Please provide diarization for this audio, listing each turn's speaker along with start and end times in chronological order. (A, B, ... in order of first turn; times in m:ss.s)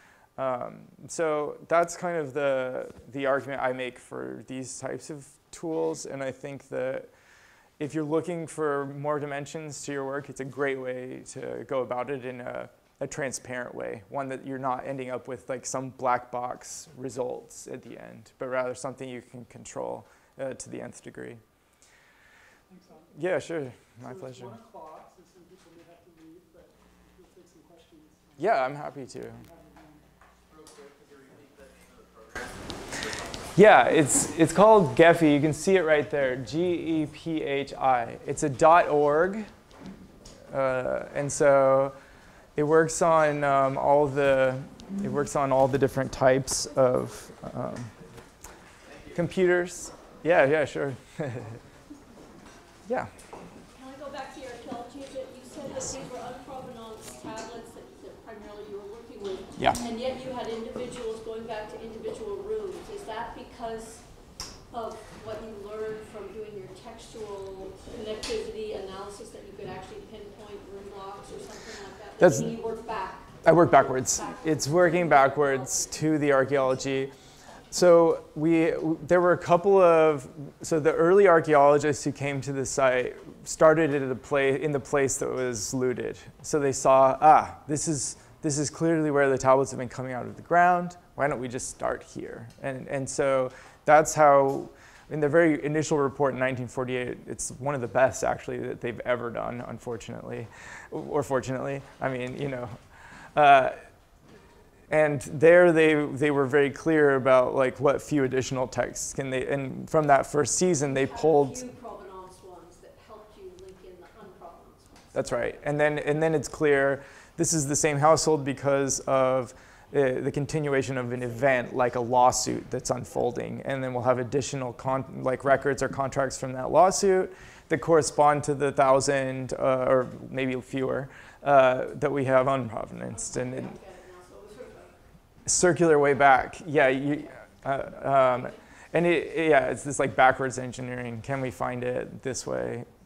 0:00.4-0:07.1 A
0:07.8-0:21.4 A
0:22.7-0:23.2 B
0:23.2-0:24.6 A
0:23.8-0:30.0 B
0:28.4-0:29.4 A
0:33.5-0:39.5 A
0:40.5-0:42.0 A
0:42.6-0:47.9 A
0:49.1-0:51.6 A
0:52.9-0:53.1 A
0:53.7-1:04.1 C
1:04.7-1:15.9 C
1:12.2-1:12.5 A
1:13.4-1:17.1 A
1:17.7-1:42.8 A
1:43.3-1:43.8 A
1:44.9-1:51.6 A
1:50.8-1:55.3 C
1:55.1-2:13.7 A
2:13.1-2:15.0 C
2:15.5-2:22.9 A
2:18.2-2:18.6 C